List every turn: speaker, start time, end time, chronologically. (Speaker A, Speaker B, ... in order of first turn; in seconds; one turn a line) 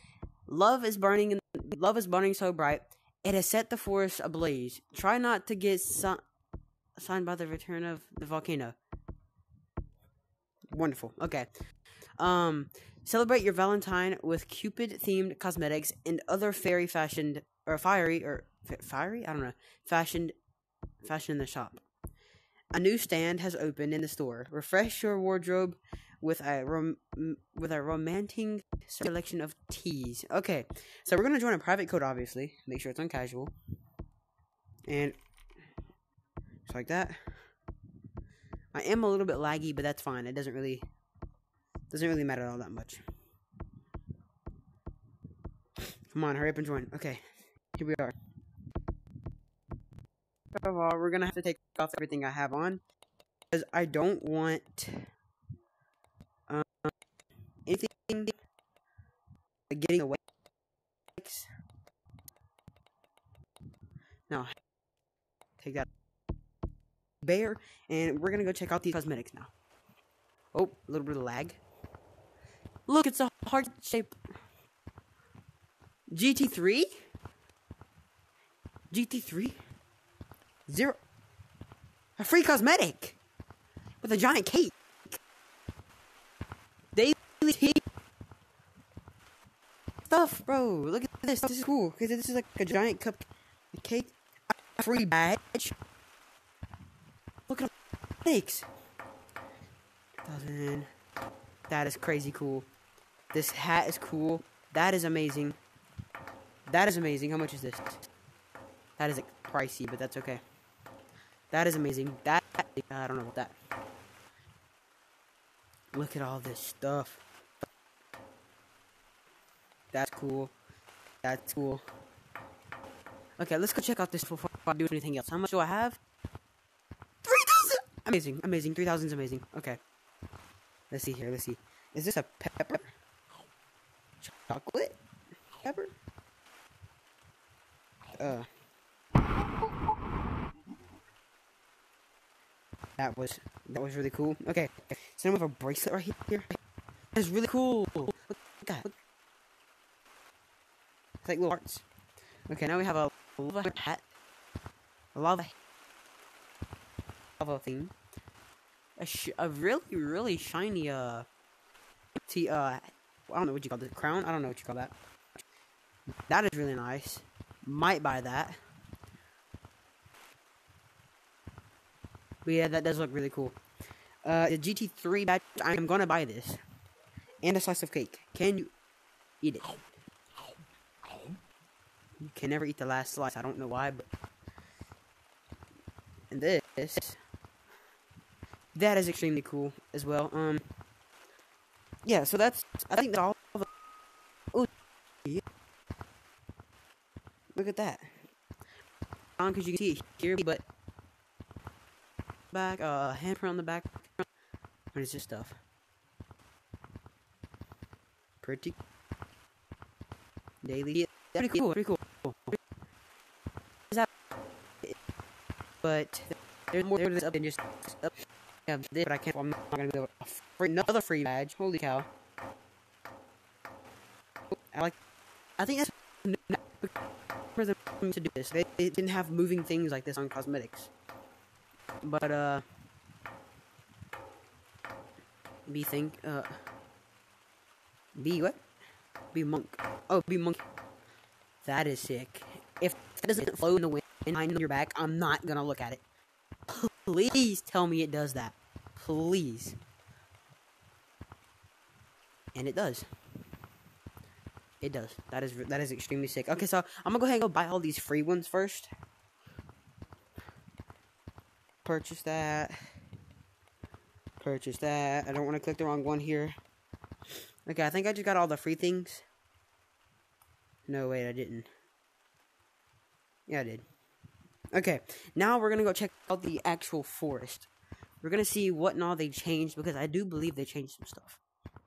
Speaker A: 0.5-6.2
Speaker A: 7.0-8.7
Speaker A: 10.7-11.5
Speaker A: 12.2-20.3
Speaker A: 21.0-21.8
Speaker A: 22.7-33.5
Speaker A: 34.9-35.2
Speaker A: 36.6-37.2
Speaker A: 38.7-40.9
Speaker A: 41.9-43.0
Speaker A: 46.1-47.2
Speaker A: 47.7-48.1
Speaker A: 50.5-52.8
Speaker A: 53.5-55.1
Speaker A: 56.5-56.9
Speaker A: 57.6-58.4
Speaker A: 59.7-60.2
Speaker A: 61.2-61.5
Speaker A: 64.3-64.5
Speaker A: 65.6-65.9
Speaker A: 67.2-69.5
Speaker A: 70.5-71.6
Speaker A: 72.9-74.2
Speaker A: 76.1-76.9
Speaker A: 78.9-79.6
Speaker A: 80.7-81.0
Speaker A: 82.2-83.2
Speaker A: 84.0-85.2
Speaker A: 86.9-87.8
Speaker A: 90.0-94.1
Speaker A: 94.8-95.7
Speaker A: 98.2-98.7
Speaker A: 100.2-100.9
Speaker A: 101.7-102.7
Speaker A: 103.3-105.6
Speaker A: 106.7-108.0
Speaker A: 109.0-110.4
Speaker A: 111.5-113.5
Speaker A: 115.9-117.2
Speaker A: 119.9-120.5
Speaker A: 121.2-121.8
Speaker A: 123.4-126.0
Speaker A: 127.2-129.8
Speaker A: 130.9-132.9
Speaker A: 134.2-135.0
Speaker A: 135.6-135.9
Speaker A: 138.1-138.5
Speaker A: 143.0-146.5
Speaker A: 147.1-148.9
Speaker A: 151.2-151.8
Speaker A: 152.5-154.1
Speaker A: 155.1-155.5
Speaker A: 157.4-157.9
Speaker A: 159.0-161.3
Speaker A: 162.3-164.9
Speaker A: 166.3-168.6
Speaker A: 172.4-173.6
Speaker A: 174.2-176.6
Speaker A: 177.4-178.7
Speaker A: 179.4-179.8
Speaker A: 182.2-184.1
Speaker A: 186.3-187.2
Speaker A: 188.7-190.7
Speaker A: 192.0-193.7
Speaker A: 197.5-198.1
Speaker A: 199.4-200.6
Speaker A: 202.5-204.2
Speaker A: 204.9-205.6
Speaker A: 208.4-208.8
Speaker A: 210.6-212.6
Speaker A: 215.8-218.1
Speaker A: 218.7-222.1
Speaker A: 224.5-224.9
Speaker A: 225.6-226.9
Speaker A: 227.6-230.9
Speaker A: 232.0-232.6
Speaker A: 235.7-236.6
Speaker A: 238.2-238.6
Speaker A: 239.3-240.6
Speaker A: 241.6-246.0
Speaker A: 246.7-249.8
Speaker A: 252.5-253.1
Speaker A: 254.8-258.9
Speaker A: 261.8-262.8
Speaker A: 264.4-266.5
Speaker A: 267.6-269.2
Speaker A: 270.9-271.7
Speaker A: 273.5-273.8
Speaker A: 274.7-277.7
Speaker A: 278.2-281.4